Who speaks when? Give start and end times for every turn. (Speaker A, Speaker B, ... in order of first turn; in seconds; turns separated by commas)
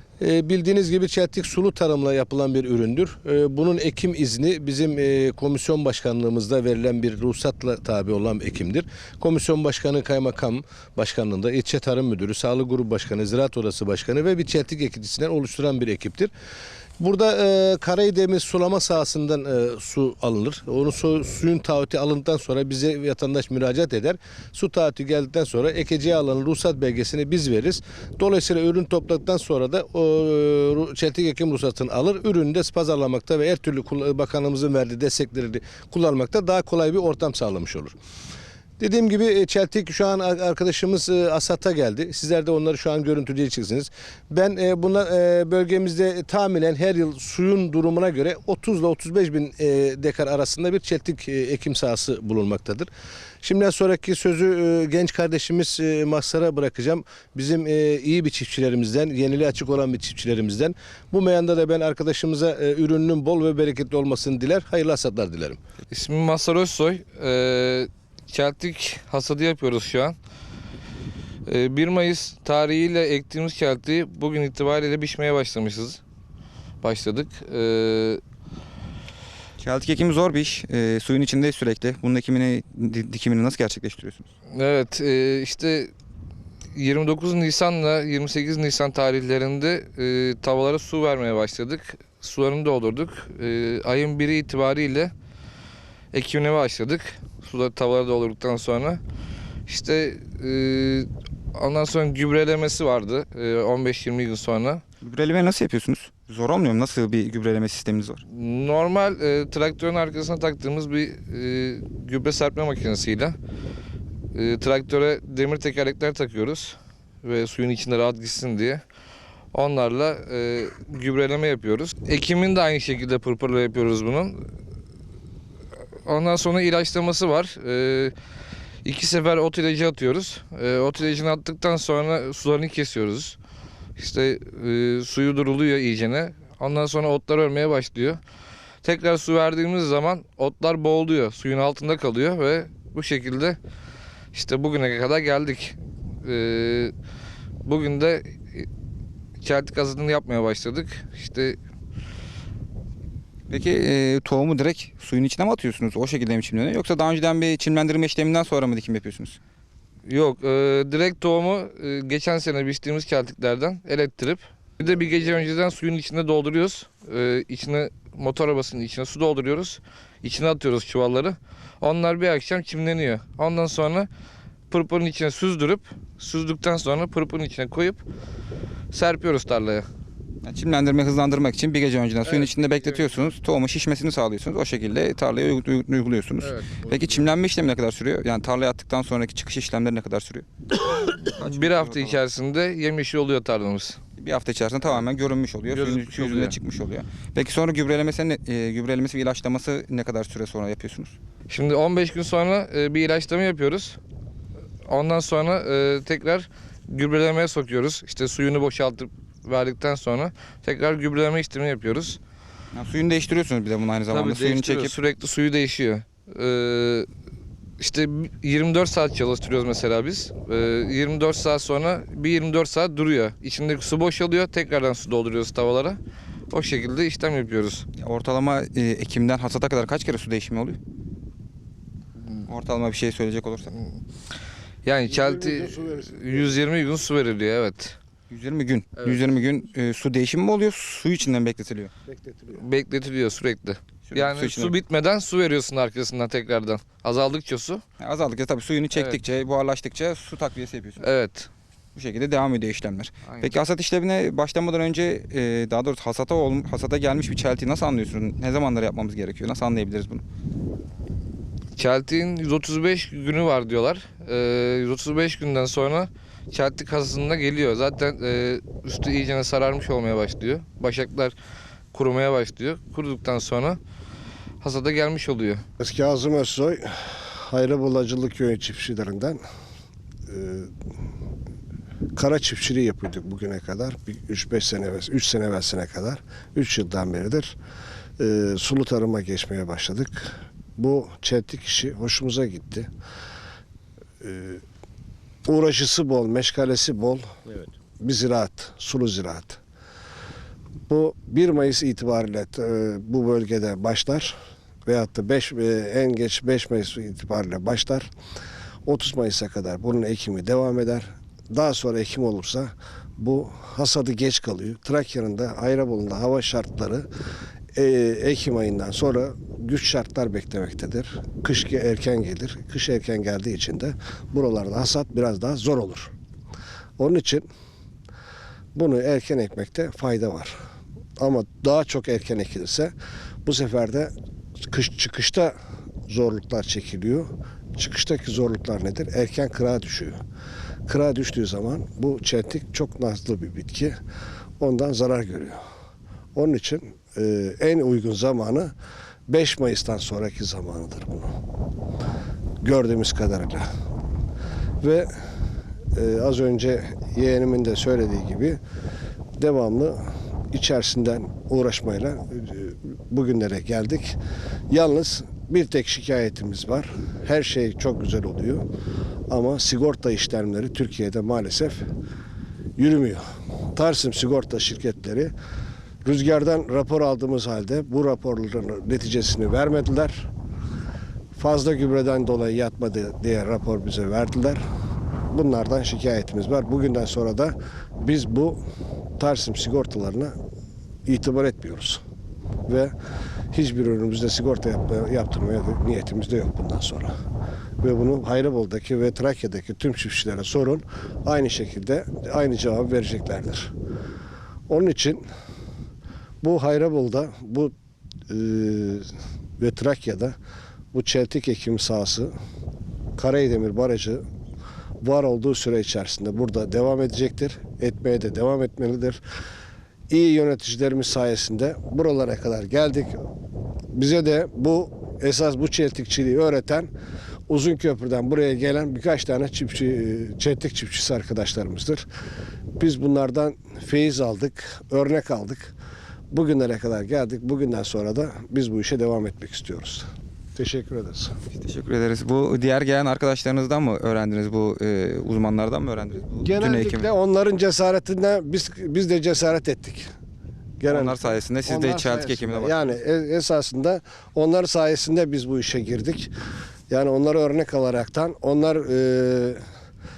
Speaker A: 0.2-16.3, Speaker A: 17.0-38.0, Speaker A: 38.8-52.9, Speaker A: 53.4-65.6, Speaker B: 65.9-70.2, Speaker B: 71.5-76.0, Speaker B: 76.8-78.2, Speaker C: 79.6-84.3, Speaker B: 84.5-85.9, Speaker B: 86.7-95.1, Speaker B: 96.1-99.0, Speaker B: 99.7-104.8, Speaker C: 105.0-108.2, Speaker B: 108.3-113.3, Speaker B: 114.3-118.8, Speaker B: 119.5-124.4, Speaker B: 126.0-128.1, Speaker B: 128.8-133.4, Speaker B: 134.0-138.2, Speaker B: 138.8-143.6, Speaker B: 144.3-146.9, Speaker B: 147.6-148.7, Speaker B: 149.4-151.6, Speaker C: 153.5-159.4, Speaker B: 160.1-174.1, Speaker B: 174.7-178.0, Speaker B: 178.9-179.9, Speaker C: 180.4-190.4, Speaker B: 182.2-183.2, Speaker B: 186.4-187.2, Speaker B: 190.9-194.0, Speaker C: 191.1-192.2, Speaker C: 194.2-201.1, Speaker B: 195.7-196.5, Speaker B: 201.5-204.0, Speaker B: 204.9-212.2, Speaker C: 212.7-214.9, Speaker B: 214.1-217.1, Speaker B: 217.8-226.0, Speaker B: 226.5-227.8, Speaker C: 228.0-230.8, Speaker C: 232.4-233.7, Speaker B: 234.8-238.0, Speaker D: 235.1-236.5, Speaker C: 238.3-241.9, Speaker D: 242.1-242.6, Speaker B: 242.5-247.8, Speaker C: 244.1-244.7, Speaker C: 248.0-251.0, Speaker B: 248.9-249.2, Speaker B: 251.0-251.5, Speaker C: 251.9-260.2, Speaker B: 253.2-253.5, Speaker B: 261.8-271.3, Speaker B: 271.9-273.8, Speaker B: 274.6-275.6, Speaker D: 275.8-279.4, Speaker D: 280.3-280.7, Speaker D: 282.1-287.6, Speaker D: 288.2-292.9, Speaker D: 294.2-294.6, Speaker D: 295.4-297.3, Speaker A: 297.5-297.7, Speaker D: 298.0-299.6, Speaker D: 300.9-308.1, Speaker D: 308.8-317.1, Speaker D: 317.7-326.1, Speaker D: 327.0-327.4, Speaker D: 328.7-330.6, Speaker D: 331.2-332.9, Speaker D: 333.4-334.1, Speaker D: 334.7-335.5, Speaker D: 336.1-340.2, Speaker D: 340.9-344.0, Speaker D: 344.6-345.6, Speaker D: 346.3-348.7, Speaker D: 349.3-351.3, Speaker D: 352.6-353.7, Speaker D: 354.8-355.1, Speaker D: 355.9-358.6, Speaker D: 359.4-364.2, Speaker D: 364.7-368.6, Speaker D: 369.3-371.9, Speaker D: 372.8-375.3, Speaker D: 376.0-380.3, Speaker D: 381.4-384.6, Speaker D: 385.3-388.6, Speaker D: 389.2-390.3, Speaker D: 391.1-392.0, Speaker D: 392.7-392.9, Speaker D: 393.5-397.1, Speaker D: 397.8-403.7, Speaker D: 404.7-405.2, Speaker D: 406.4-407.7, Speaker D: 408.3-410.3, Speaker D: 410.9-412.3, Speaker D: 413.2-414.2, Speaker D: 415.0-419.2, Speaker D: 420.1-423.1, Speaker D: 423.9-426.9, Speaker D: 427.5-432.1, Speaker D: 432.8-435.7, Speaker D: 436.3-441.4, Speaker C: 441.5-447.1, Speaker D: 446.3-450.1, Speaker D: 450.8-456.3, Speaker C: 450.9-452.9, Speaker D: 456.9-459.6